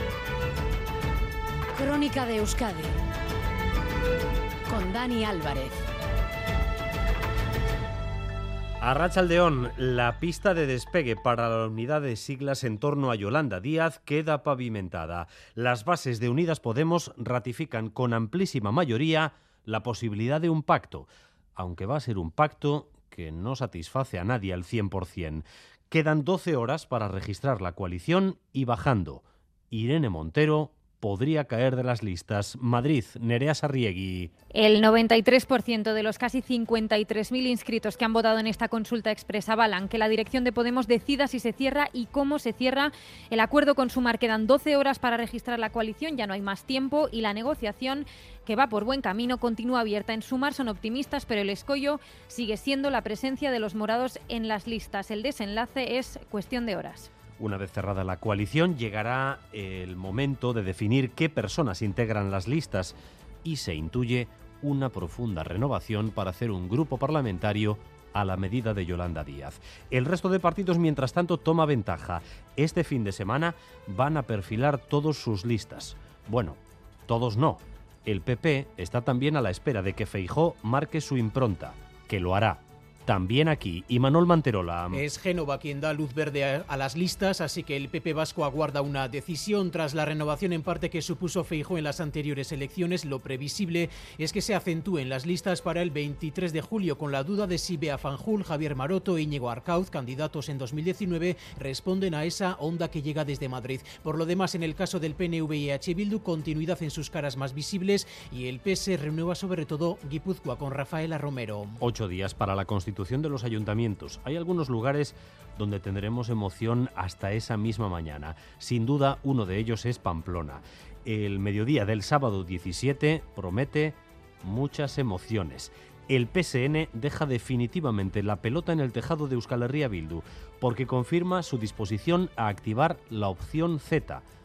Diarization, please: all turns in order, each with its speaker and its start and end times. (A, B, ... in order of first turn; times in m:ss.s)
0:01.8-0:03.0 A
0:04.7-0:05.8 A
0:08.8-0:34.3 B
0:34.5-0:57.1 C
0:57.4-1:25.0 B
1:24.9-1:51.8 D
1:51.8-2:14.2 B